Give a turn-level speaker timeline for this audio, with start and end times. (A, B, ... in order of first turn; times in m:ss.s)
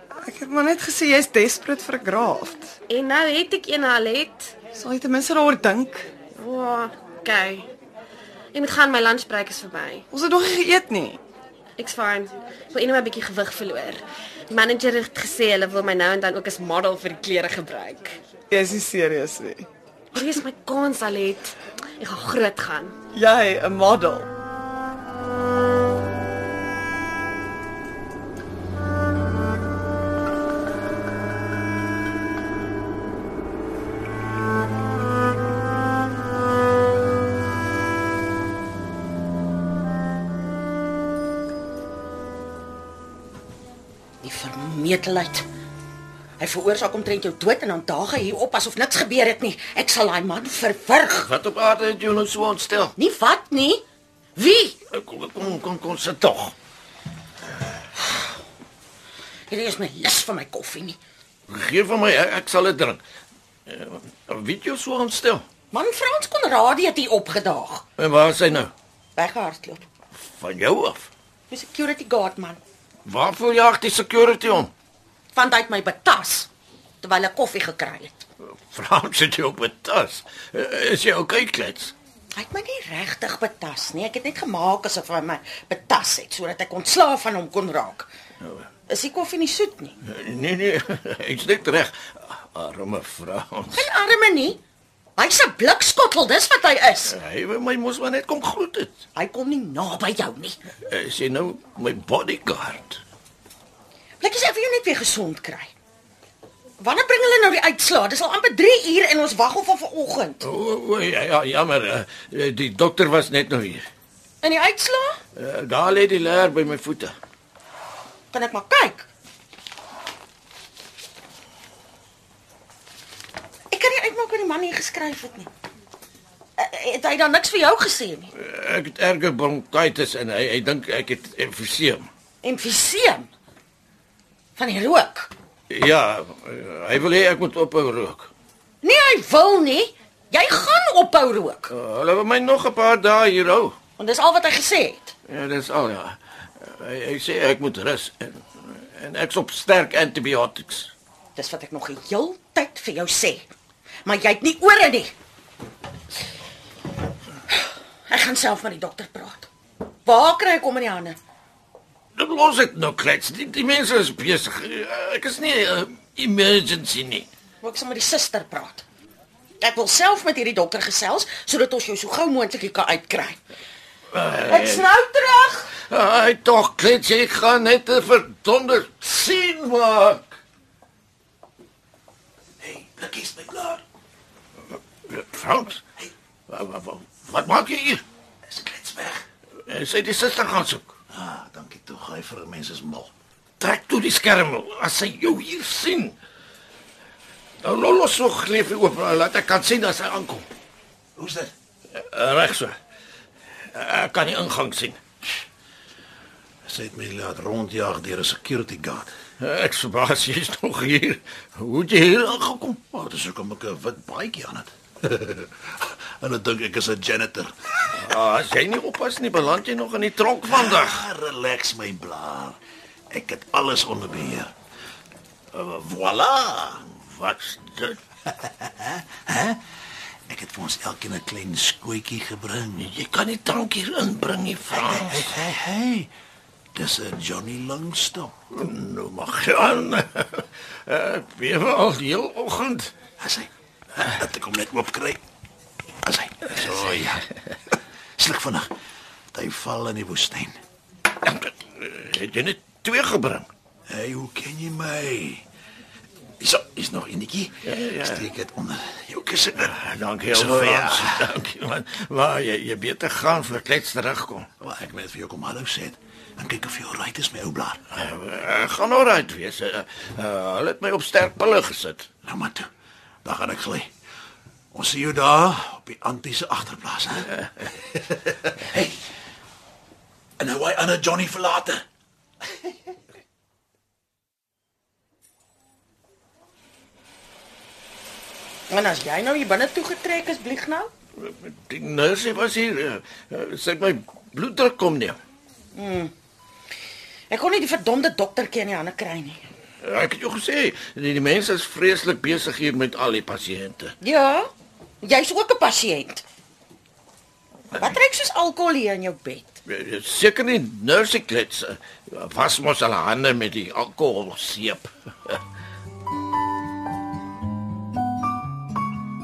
0:00.2-0:02.7 A
0:02.9-0:04.5 B
0:04.7-0:06.1 A
0:06.3-0:07.7 B
0:08.5-0:10.0 B
0:10.1-0:11.2 A
0:11.8-0:18.2 B
0:18.5-0:19.6 A
0:20.2-0:22.9 B
0:23.1-0:24.3 A
0:44.2-0:45.4 C
0:46.4-0:51.3 C
0:51.2-0:52.9 D
0:53.0-0:53.8 C
0:54.4-0:54.8 C
0:54.9-0:56.5 D
0:59.5-1:01.0 C
1:01.5-1:03.0 D
1:03.7-1:05.4 D
1:05.7-1:07.8 C
1:08.0-1:08.7 D
1:09.2-1:09.8 C
1:10.1-1:11.1 D
1:11.5-1:12.6 C
1:13.0-1:14.7 D
1:15.3-1:16.5 C
1:17.0-1:18.2 C
1:18.5-1:21.9 D
1:22.3-1:28.1 C
1:28.9-1:30.0 C
1:30.0-1:33.8 D
1:33.7-1:34.6 C
1:35.2-1:37.2 C
1:37.0-1:39.0 D
1:39.1-1:40.6 C
1:40.9-1:43.0 D
1:44.2-1:45.7 C
1:46.8-1:50.4 C
1:50.4-1:53.8 D
1:54.4-1:55.2 C
1:55.4-1:57.1 D
1:58.3-1:59.1 C
2:03.7-2:05.5 C
2:06.6-2:08.3 C
2:08.4-2:12.1 D
2:12.4-2:13.3 C
2:14.6-2:15.3 C
2:15.7-2:18.3 D
2:18.8-2:21.7 C
2:21.7-2:23.8 D
2:24.0-2:25.1 C
2:25.3-2:30.9 D
2:31.3-2:33.5 C
2:34.0-2:35.1 C
2:37.5-2:39.5 C
2:40.0-2:41.2 C
2:42.2-2:47.3 D
2:47.6-2:48.8 C
2:49.6-2:53.4 C
2:54.1-2:54.8 D
2:54.4-2:55.7 C
2:55.8-3:00.3 D
3:02.6-3:03.8 E
3:05.1-3:05.8 D
3:06.5-3:08.0 D
3:08.5-3:09.2 E
3:09.7-3:10.9 D
3:11.1-3:13.1 E
3:13.6-3:16.2 D
3:17.6-3:20.4 D
3:21.2-3:21.5 E
3:21.9-3:22.8 D
3:23.7-3:25.0 D
3:26.6-3:29.1 E
3:29.4-3:32.8 D
3:32.9-3:37.7 E
3:38.0-3:41.1 D
3:40.4-3:42.6 E
3:43.1-3:44.5 E
3:45.5-3:46.8 E
3:46.9-3:48.0 D
3:48.4-3:49.6 E
3:50.3-3:52.9 E
3:52.8-3:55.4 D
3:54.7-3:56.1 E
3:56.7-3:58.4 E
3:58.5-4:02.9 D
4:03.2-4:05.2 E
4:06.0-4:07.2 E
4:06.6-4:07.1 D
4:08.2-4:08.7 E
4:09.3-4:10.5 E
4:11.2-4:13.5 D
4:13.9-4:15.4 E
4:16.4-4:19.8 E
4:17.6-4:18.3 D
4:19.6-4:24.5 D
4:20.3-4:21.3 E
4:24.6-4:27.8 E
4:27.9-4:32.1 D
4:32.2-4:32.7 E
4:33.2-4:33.9 E
4:34.7-4:37.3 E
4:37.8-4:39.0 E
4:40.4-4:41.8 E
4:48.7-4:50.9 C
4:51.2-4:55.2 D
4:55.7-4:56.1 C
4:57.3-4:59.4 C
4:59.8-5:03.9 D
5:04.0-5:04.5 C
5:05.0-5:06.2 C
5:07.7-5:09.6 C
5:09.6-5:15.4 D